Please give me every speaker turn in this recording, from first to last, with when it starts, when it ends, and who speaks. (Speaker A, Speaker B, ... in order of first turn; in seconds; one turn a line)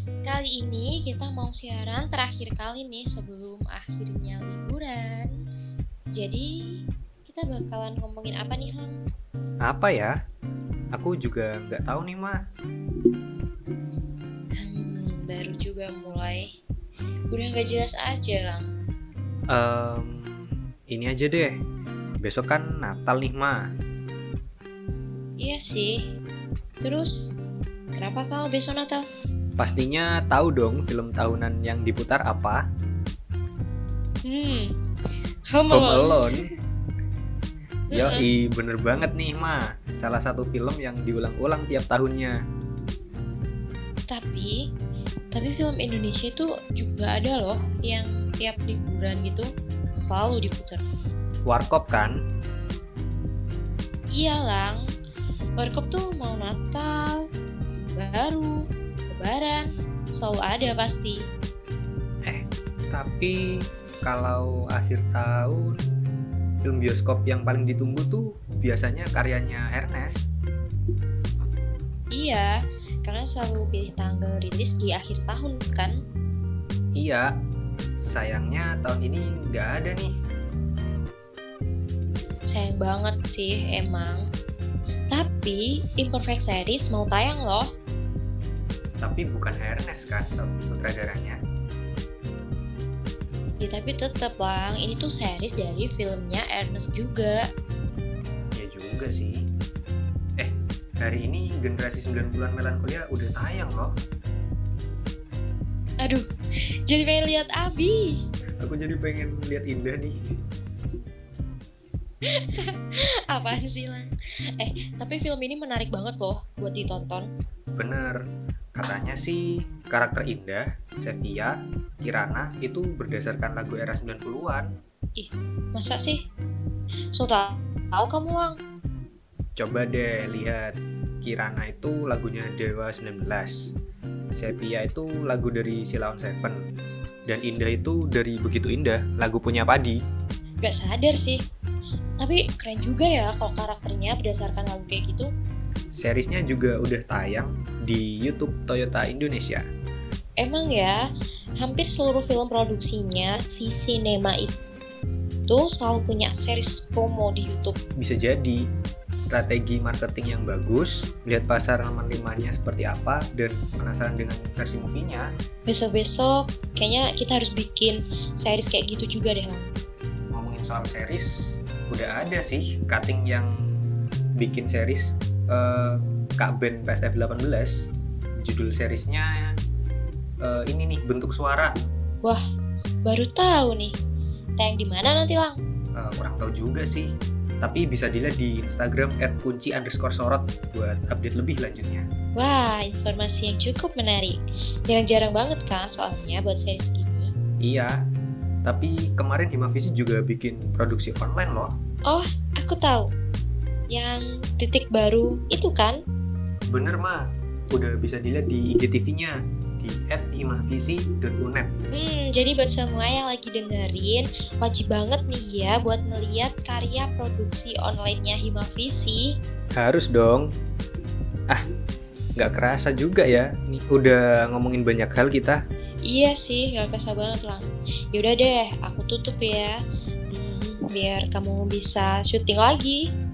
Speaker A: 0.2-5.3
Speaker A: 6.2-6.5
Speaker A: 7.2-9.0
Speaker B: 9.6-10.1
Speaker B: 10.9-12.4
Speaker A: 14.6-16.5
Speaker A: 17.3-18.7
Speaker B: 19.5-21.6
Speaker B: 22.2-23.6
Speaker A: 25.4-25.9
Speaker A: 26.8-27.3
Speaker A: 28.0-29.0
Speaker B: 29.6-32.6
Speaker A: 34.2-34.7
Speaker A: 35.5-36.3
Speaker B: 35.7-36.5
Speaker B: 37.9-42.4
Speaker A: 37.9-38.2
Speaker A: 44.1-44.5
Speaker A: 45.3-49.5
Speaker A: 50.0-50.8
Speaker B: 51.5-52.2
Speaker A: 54.1-54.8
Speaker A: 55.6-57.2
Speaker A: 57.9-58.5
Speaker A: 59.1-61.2
Speaker B: 62.2-63.4
Speaker B: 64.0-65.7
Speaker B: 66.6-70.3
Speaker A: 72.1-72.5
Speaker A: 73.0-75.9
Speaker B: 76.9-77.3
Speaker B: 78.0-80.1
Speaker A: 82.5-84.2
Speaker A: 85.1-87.7
Speaker B: 89.0-91.4
Speaker A: 93.6-97.4
Speaker B: 98.5-99.4
Speaker B: 100.4-103.9
Speaker A: 106.9-108.2
Speaker B: 108.6-110.2
Speaker A: 112.3-117.3
Speaker B: 117.8-118.2
Speaker B: 118.7-124.7
Speaker A: 125.2-126.2
Speaker A: 127.1-128.6
Speaker B: 129.6-133.7
Speaker B: 134.3-136.6
Speaker B: 137.2-140.0
Speaker A: 140.6-141.4
Speaker A: 142.2-145.3
Speaker B: 146.0-149.6
Speaker A: 150.4-151.0
Speaker A: 151.6-154.5
Speaker A: 155.5-157.8
Speaker B: 158.0-158.6
Speaker B: 159.2-165.3
Speaker A: 165.7-169.7
Speaker B: 170.3-171.3
Speaker B: 171.9-173.5
Speaker B: 174.4-177.7
Speaker B: 178.4-179.3
Speaker B: 180.4-181.7
Speaker A: 183.1-183.9
Speaker A: 184.6-185.6
Speaker B: 185.9-187.1
Speaker B: 187.6-192.0
Speaker A: 192.4-197.3
Speaker B: 197.6-197.9
Speaker B: 198.6-201.7
Speaker A: 202.1-203.1
Speaker A: 203.9-206.0
Speaker B: 206.7-207.2
Speaker B: 207.7-211.7
Speaker A: 211.9-219.3
Speaker B: 219.8-220.5
Speaker B: 222.4-225.6
Speaker A: 226.1-229.8
Speaker A: 230.3-233.0